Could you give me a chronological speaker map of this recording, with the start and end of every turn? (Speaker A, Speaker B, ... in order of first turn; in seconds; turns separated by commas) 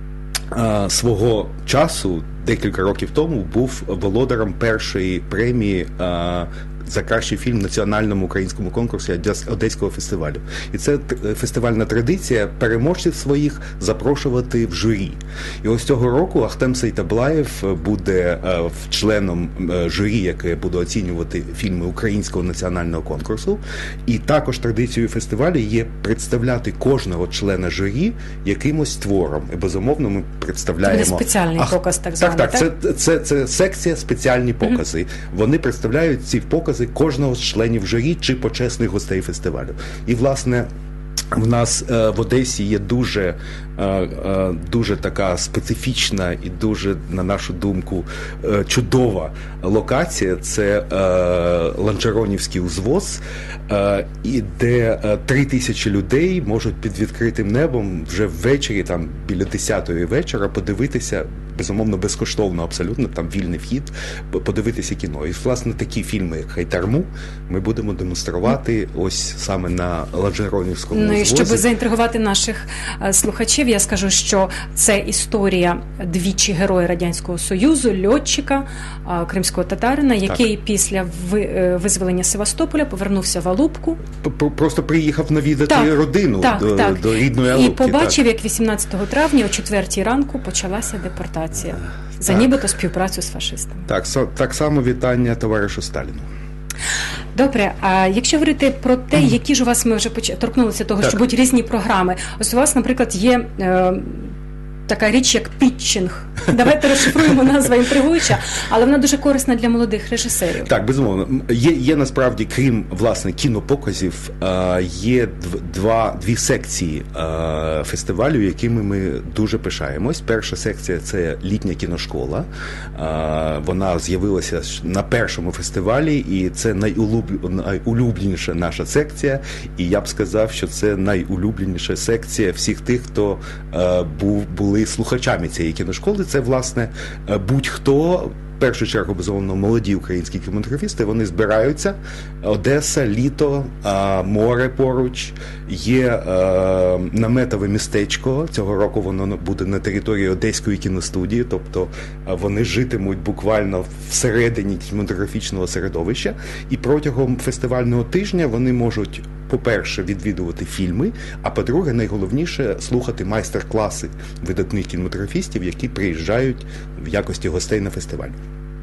Speaker A: 0.5-40.7, Speaker B: 30.8-32.7, Speaker A: 41.3-71.6, Speaker B: 70.9-84.0, Speaker A: 84.2-88.2, Speaker B: 85.7-93.9, Speaker A: 93.9-96.2, Speaker B: 97.3-104.3, Speaker B: 104.9-110.7, Speaker A: 110.6-168.3